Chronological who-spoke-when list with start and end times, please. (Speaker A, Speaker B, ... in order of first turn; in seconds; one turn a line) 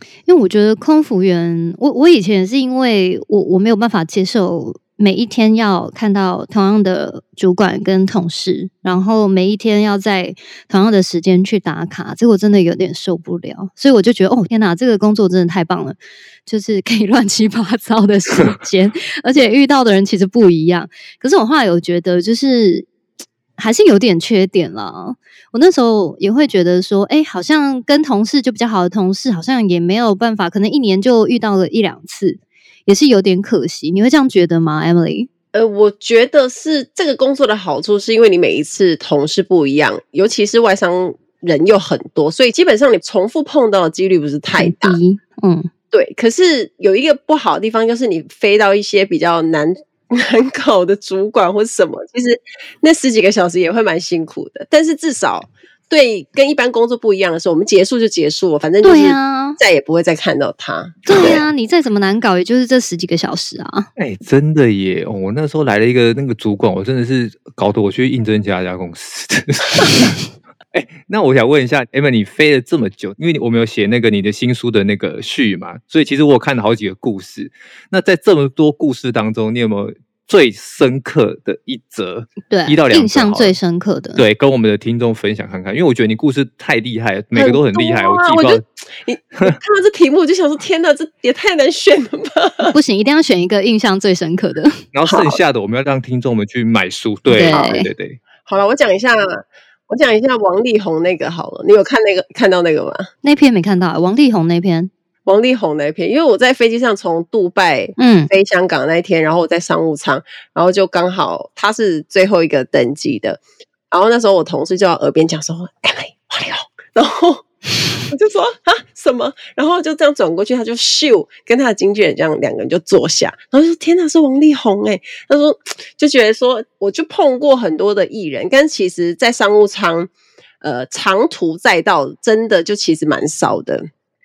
Speaker A: 0.3-22.9
Speaker A: 23.6-35.3
Speaker B: 35.5-45.0
Speaker A: 44.6-45.7
Speaker B: 45.9-61.4
Speaker A: 58.8-59.6
Speaker A: 61.0-63.9
Speaker C: 64.0-70.2
Speaker C: 70.7-83.5
Speaker A: 82.5-84.2
Speaker C: 84.1-88.6
Speaker B: 87.3-92.7
Speaker A: 92.6-94.8
Speaker C: 94.9-98.2
Speaker B: 95.1-95.4
Speaker A: 97.3-97.9
Speaker B: 97.5-97.8
Speaker B: 98.4-103.1
Speaker A: 103.2-104.9
Speaker B: 105.2-117.5
Speaker A: 108.0-108.3
Speaker B: 118.1-130.1
Speaker B: 130.6-133.9